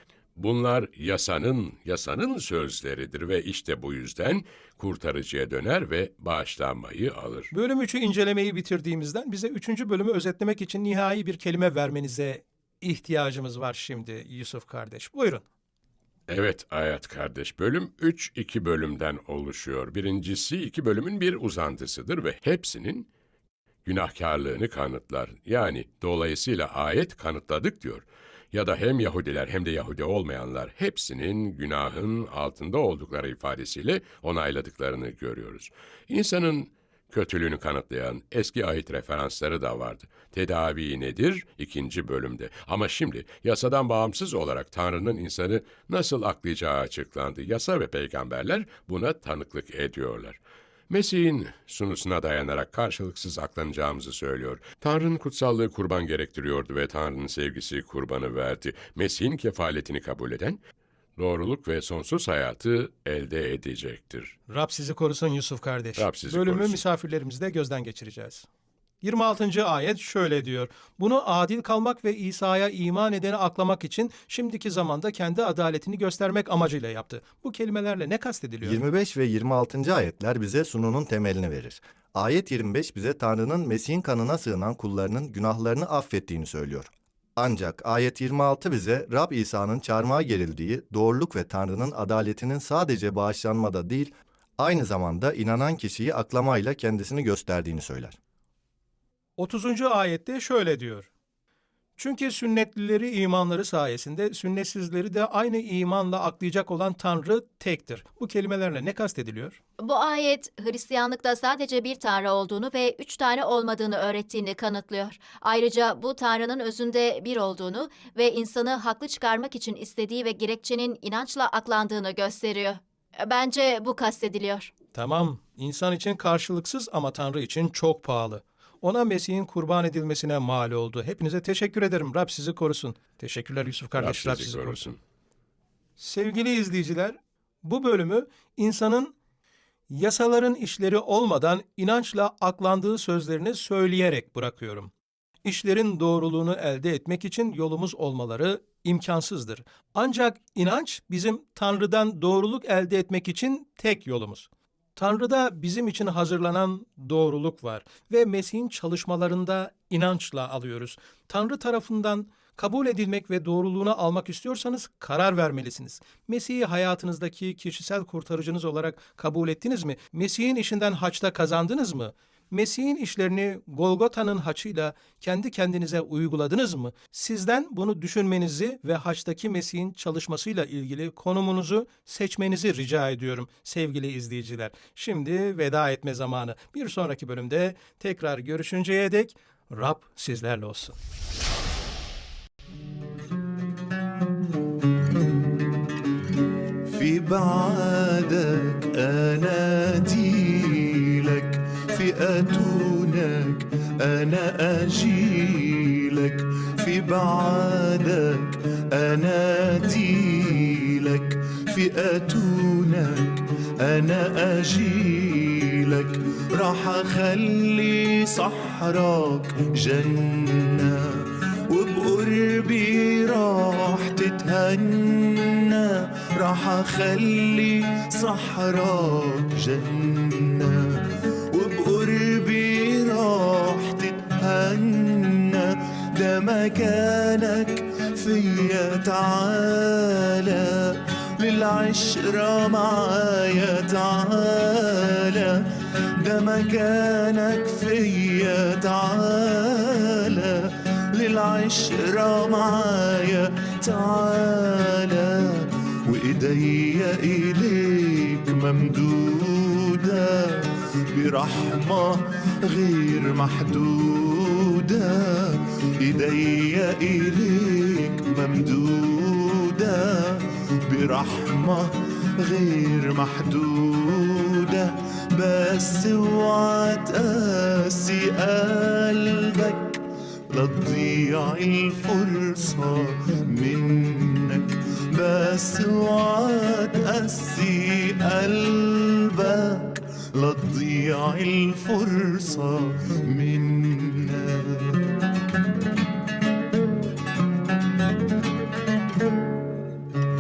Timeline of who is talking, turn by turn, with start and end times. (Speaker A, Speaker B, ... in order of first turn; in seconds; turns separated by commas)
Speaker A: 0.4-7.5, Speaker B: 7.5-15.4, Speaker A: 16.3-23.1, Speaker A: 23.9-50.4, Speaker A: 50.9-60.6, Speaker A: 61.2-64.4, Speaker B: 64.5-68.5, Speaker A: 66.0-66.8, Speaker B: 69.0-78.8, Speaker C: 78.6-98.2, Speaker B: 99.4-101.1, Speaker B: 102.0-109.6, Speaker D: 109.8-124.7, Speaker B: 124.9-134.9, Speaker A: 134.0-135.0, Speaker B: 136.0-139.1, Speaker B: 139.9-144.9, Speaker B: 145.4-191.0, Speaker E: 196.9-295.0